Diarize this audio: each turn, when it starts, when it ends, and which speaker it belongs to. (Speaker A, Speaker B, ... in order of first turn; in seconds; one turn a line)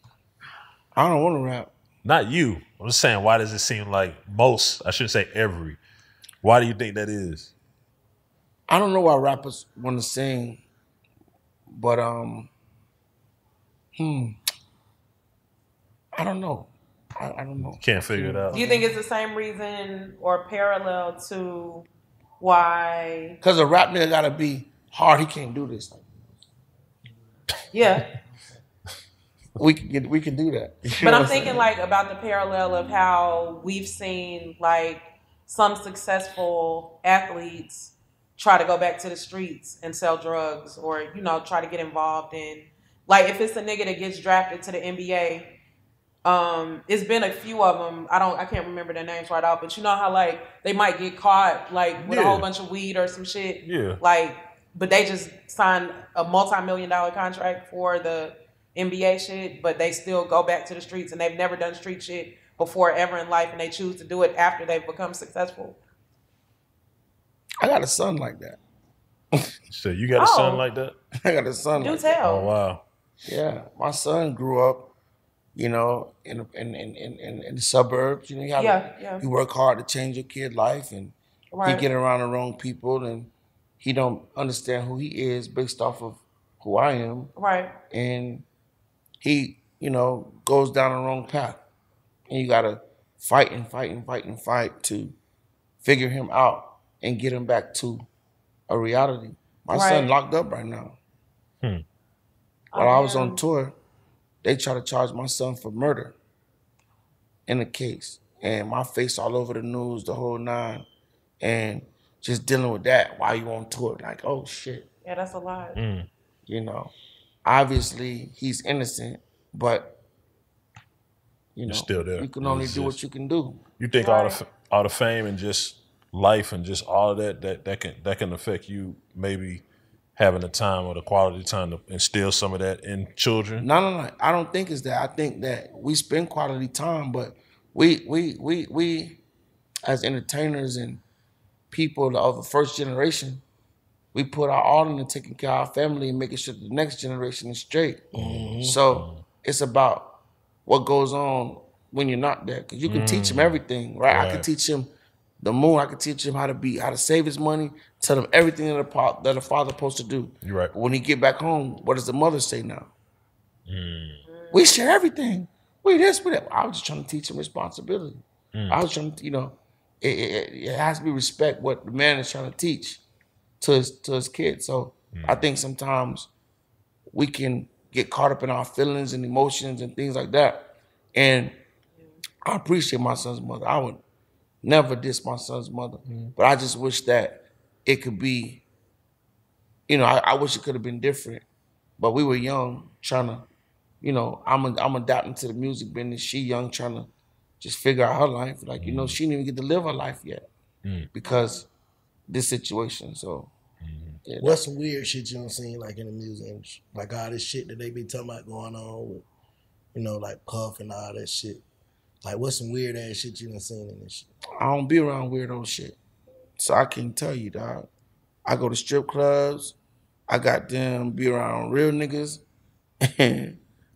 Speaker A: 0.9-1.7
Speaker B: 2.0-5.8
Speaker B: 6.4-7.5
Speaker A: 8.7-10.6
Speaker A: 11.7-12.5
Speaker A: 13.9-14.4
Speaker A: 16.1-18.0
Speaker B: 17.7-18.6
Speaker C: 18.1-18.9
Speaker D: 18.5-21.9
Speaker D: 22.4-23.4
Speaker A: 23.4-26.1
Speaker D: 27.7-28.1
Speaker A: 29.6-31.6
Speaker D: 31.0-45.5
Speaker D: 46.2-65.8
Speaker B: 52.0-52.5
Speaker B: 53.6-54.0
Speaker A: 67.6-68.6
Speaker B: 69.7-71.0
Speaker D: 70.2-70.6
Speaker A: 71.2-72.2
Speaker D: 71.7-72.5
Speaker B: 72.2-72.8
Speaker A: 73.2-74.9
Speaker A: 75.5-87.3
Speaker D: 78.5-79.2
Speaker D: 81.5-81.9
Speaker D: 87.3-87.7
Speaker A: 87.9-88.4
Speaker A: 89.2-91.6
Speaker A: 92.3-95.2
Speaker A: 95.8-98.1
Speaker A: 98.7-101.0
Speaker D: 99.7-100.1
Speaker D: 102.7-103.4
Speaker A: 102.8-103.8
Speaker A: 104.4-106.2
Speaker A: 107.5-110.8
Speaker A: 111.4-114.9
Speaker D: 115.0-115.8
Speaker B: 115.7-116.1
Speaker A: 116.5-116.9
Speaker A: 117.4-120.0
Speaker A: 121.5-123.6
Speaker B: 121.7-123.0
Speaker B: 123.8-129.6
Speaker D: 124.0-124.4
Speaker B: 130.2-133.7
Speaker A: 133.6-139.2
Speaker A: 139.8-141.0
Speaker A: 141.7-143.4
Speaker A: 144.1-148.1
Speaker C: 148.1-148.8
Speaker B: 148.1-149.2
Speaker A: 148.6-162.9
Speaker B: 152.8-154.5
Speaker B: 160.4-160.7
Speaker B: 163.7-164.2
Speaker D: 164.3-164.8
Speaker A: 164.5-173.0
Speaker B: 168.5-168.8
Speaker A: 173.6-176.3
Speaker B: 175.1-175.4
Speaker A: 177.1-181.6
Speaker A: 182.4-184.0
Speaker A: 184.6-188.6
Speaker B: 186.1-186.3
Speaker A: 189.9-191.4
Speaker A: 192.0-193.5
Speaker A: 194.0-197.1
Speaker A: 197.6-200.4
Speaker B: 198.8-199.2
Speaker B: 200.8-201.1
Speaker A: 201.1-201.7
Speaker D: 201.2-201.6
Speaker A: 202.3-203.5
Speaker B: 203.8-204.2
Speaker A: 204.2-204.6
Speaker C: 204.4-209.2
Speaker C: 209.9-211.6
Speaker C: 212.2-214.3
Speaker A: 214.6-216.0
Speaker A: 216.6-217.9
Speaker A: 218.4-219.8
Speaker A: 220.3-222.4
Speaker A: 223.1-223.6